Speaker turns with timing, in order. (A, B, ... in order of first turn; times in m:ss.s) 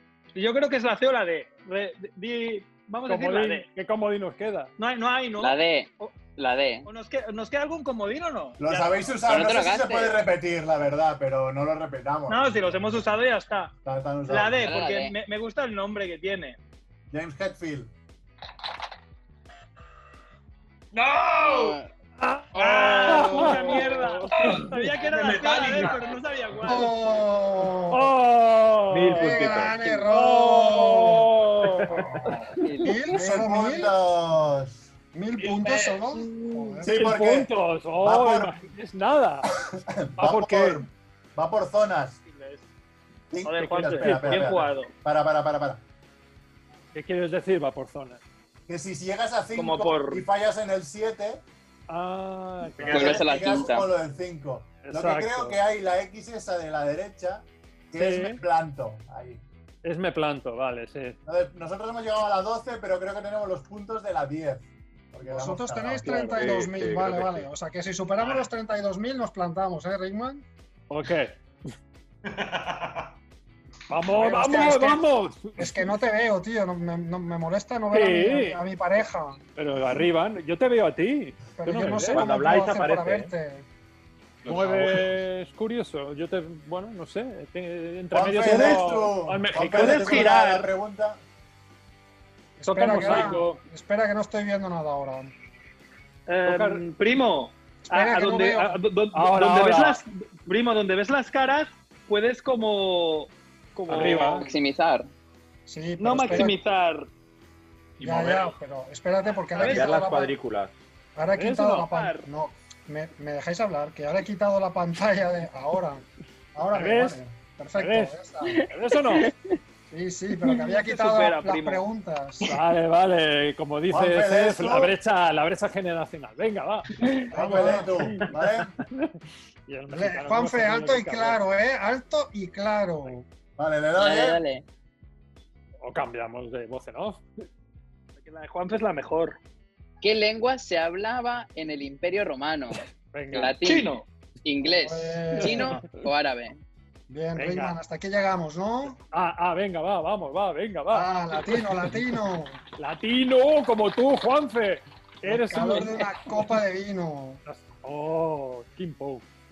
0:00.4-0:03.7 A
0:03.1-0:04.7 B
0:04.8-0:06.1 A
0:05.4-0:06.9 C
0:06.9-0:09.1 A
0:08.6-0:12.9 D
0:09.3-0:10.2 C
0:12.3-0:13.7 A
0:13.8-0:14.7 D
0:14.3-0:16.6 A
0:14.6-0:15.2 C
0:17.1-0:17.9 D
0:20.9-0:21.8 E
0:21.4-0:21.9 C
0:22.2-0:24.8 B
0:22.6-0:26.9 A
0:22.6-0:23.8 C
0:24.4-0:26.2 E
0:26.6-0:28.2 F
0:27.9-0:29.5 B
0:28.9-0:29.8 G
0:29.1-0:31.4 F
0:30.1-0:32.9 B
0:31.9-0:34.0 F
0:32.6-0:33.0 C
0:33.1-0:34.9 D
0:35.1-0:37.0 F
0:35.4-0:36.0 E
0:36.2-0:39.5 B
0:36.8-0:38.6 D
0:39.5-0:42.2 D
0:40.2-0:40.8 B
0:42.3-0:42.7 A
0:43.3-0:45.8 D
0:43.4-0:44.9 A
0:43.6-0:44.6 B
0:46.9-0:48.2 B
0:48.7-0:51.4 D
0:49.6-0:50.2 A
0:51.9-0:53.3 B
0:52.8-0:53.2 E
0:52.8-0:59.4 D
0:52.9-0:53.9 C
0:54.8-0:55.6 B
0:58.0-0:58.4 B
0:59.8-1:01.2 B
1:01.3-1:06.3 D
1:05.2-1:10.4 F
1:06.0-1:06.3 B
1:06.3-1:07.5 G
1:08.2-1:08.5 E
1:10.9-1:11.4 B
1:12.3-1:13.1 E
1:13.9-1:16.0 B
1:14.1-1:19.4 F
1:17.9-1:18.6 B
1:19.6-1:22.3 B
1:21.6-1:23.7 F
1:22.1-1:23.3 G
1:24.4-1:25.1 E
1:24.5-1:30.4 B
1:28.1-1:31.2 D
1:29.7-1:30.7 A
1:32.6-1:35.3 F
1:32.6-1:33.6 B
1:36.3-1:44.5 A
1:36.5-1:36.8 B
1:37.9-1:38.8 F
1:39.1-1:40.0 B
1:43.9-1:44.5 B
1:43.9-1:45.1 C
1:45.7-1:46.6 F
1:46.0-1:47.1 A
1:48.0-1:48.5 E
1:48.0-1:50.3 F
1:49.6-1:49.9 A
1:49.6-1:50.8 G
1:51.2-1:58.7 F
1:51.4-1:51.9 B
1:51.9-1:52.3 A
1:56.7-1:57.2 B
1:57.8-1:59.3 B
1:58.5-1:59.6 C
1:59.9-2:02.6 F
2:00.7-2:01.8 A
2:02.4-2:07.2 B
2:03.9-2:04.9 D
2:07.3-2:08.2 F
2:07.4-2:08.7 D
2:08.9-2:11.4 B
2:09.9-2:13.3 F
2:13.6-2:14.4 D
2:14.0-2:14.6 C
2:15.8-2:17.3 B
2:18.2-2:19.4 A
2:20.0-2:23.9 C
2:23.1-2:23.6 B
2:23.6-2:24.1 A
2:24.4-2:26.6 C
2:24.7-2:25.9 F
2:25.4-2:25.8 B
2:27.1-2:29.0 F
2:27.4-2:27.8 B
2:29.1-2:32.0 B
2:30.9-2:32.6 F
2:32.8-2:36.6 B
2:35.2-2:37.4 F
2:37.4-2:39.3 B